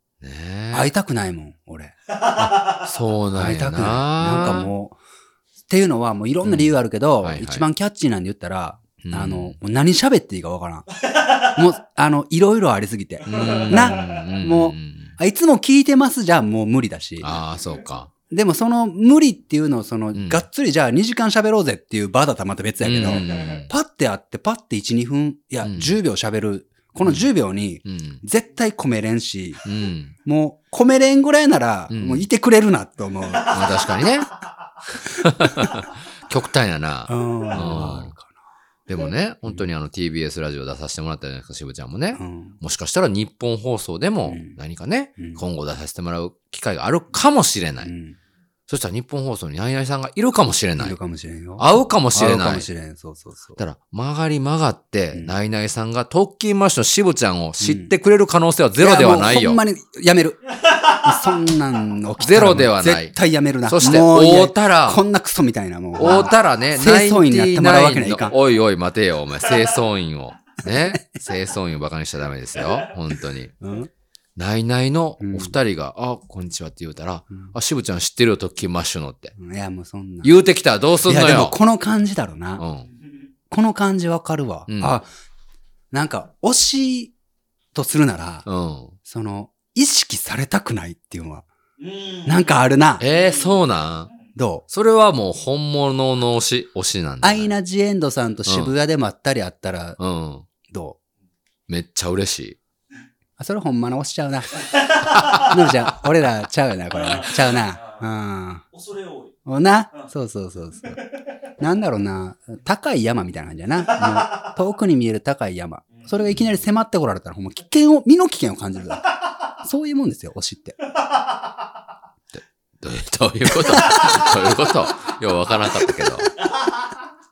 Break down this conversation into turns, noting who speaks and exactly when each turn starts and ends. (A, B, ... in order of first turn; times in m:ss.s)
0:00.2-0:00.9 A
0:00.7-0:02.6 B
0:02.8-0:04.7 A
0:03.3-0:05.0 B
0:05.7-0:10.9 B
0:06.4-0:07.7 A
0:09.0-0:09.6 A
0:11.4-0:17.3 B
0:13.2-0:15.2 A
0:17.2-0:18.1 A
0:18.3-0:29.6 B
0:20.1-0:20.4 A
0:22.8-0:23.7 A
0:25.6-0:26.0 A
0:27.0-0:27.3 A
0:27.8-0:28.2 A
0:29.6-0:30.2 A
0:30.2-0:33.7 B
0:31.9-0:32.3 A
0:33.4-0:34.3 A
0:35.1-0:38.1 A
0:37.1-0:38.3 B
0:38.9-0:47.9 A
0:42.1-0:42.6 B
0:44.2-0:44.6 B
0:45.2-0:45.4 B
0:47.8-0:48.2 B
0:48.7-0:51.0 A
0:50.8-0:53.6 B
0:51.6-0:52.7 A
0:53.6-0:59.6 A
0:57.6-0:57.9 B
0:58.8-1:08.3 B
1:02.2-1:05.0 A
1:06.0-1:13.5 A
1:13.6-1:13.9 B
1:14.4-1:19.3 A
1:15.2-1:15.6 B
1:19.4-1:20.3 B
1:20.2-1:21.6 A
1:21.0-1:22.6 B
1:22.6-1:22.9 A
1:23.5-1:25.1 B
1:24.7-1:24.9 A
1:25.9-1:27.1 B
1:27.7-1:28.4 B
1:28.4-1:28.9 A
1:29.0-1:31.5 B
1:31.8-1:32.6 C
1:32.2-1:33.0 B
1:33.0-1:34.1 A
1:33.1-1:33.5 C
1:34.3-1:34.6 B
1:34.7-1:37.5 A
1:37.2-1:40.0 B
1:38.5-1:38.7 A
1:40.0-1:40.5 A
1:40.7-1:41.0 B
1:41.7-1:42.6 A
1:43.4-1:48.6 B
1:47.0-1:48.0 C
1:48.7-1:49.3 C
1:49.4-1:51.0 B
1:51.6-1:59.1 B
1:59.6-2:00.8 B
2:02.3-2:06.3 A